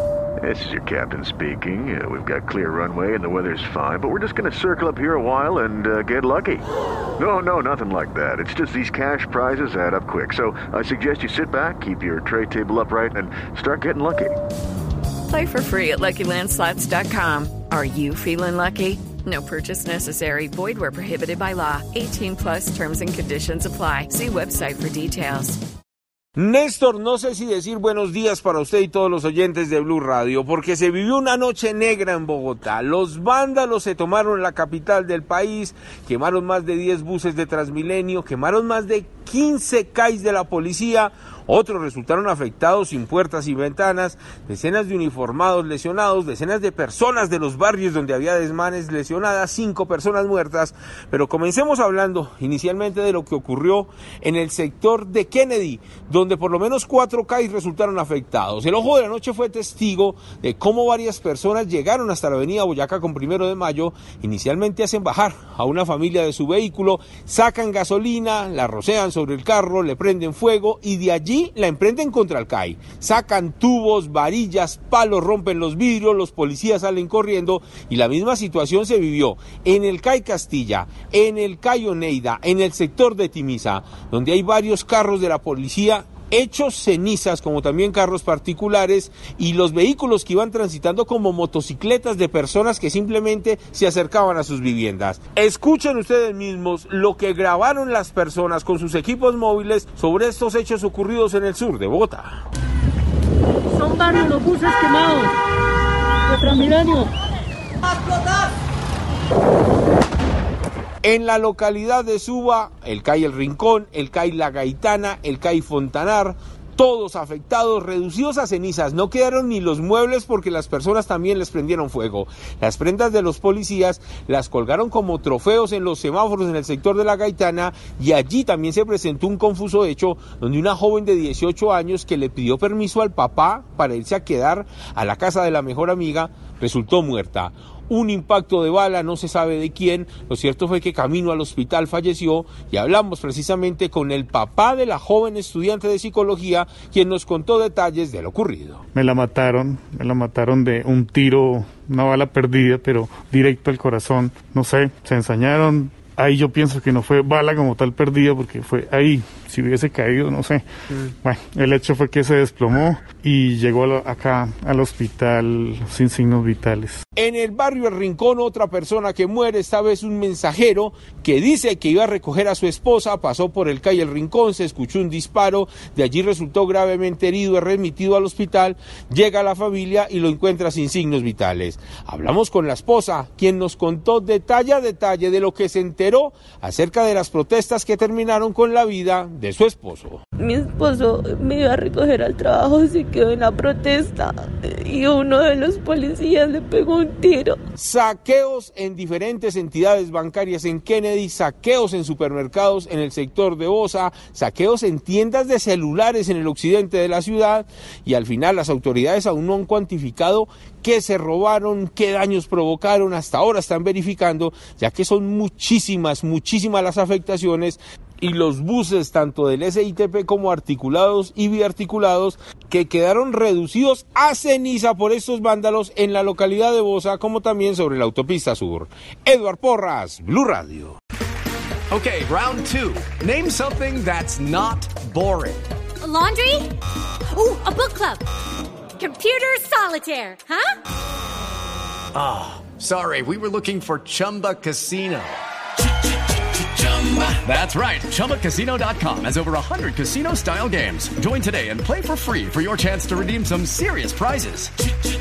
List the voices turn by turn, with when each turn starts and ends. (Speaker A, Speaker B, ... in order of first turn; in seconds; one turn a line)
Speaker A: 0.4-6.7
Speaker A: 7.2-14.4
Speaker B: 15.3-25.6
Speaker C: 26.4-102.4
Speaker D: 103.7-105.3
Speaker D: 106.3-107.1
Speaker C: 111.0-148.8
Speaker E: 148.9-160.6
Speaker E: 161.2-167.0
Speaker C: 167.2-190.2
Speaker F: 190.4-197.6
Speaker C: 197.8-231.0
Speaker G: 231.9-235.6
Speaker H: 236.0-236.7
Speaker H: 237.3-238.2
Speaker H: 239.0-240.8
Speaker G: 242.1-245.4
Speaker G: 246.8-254.7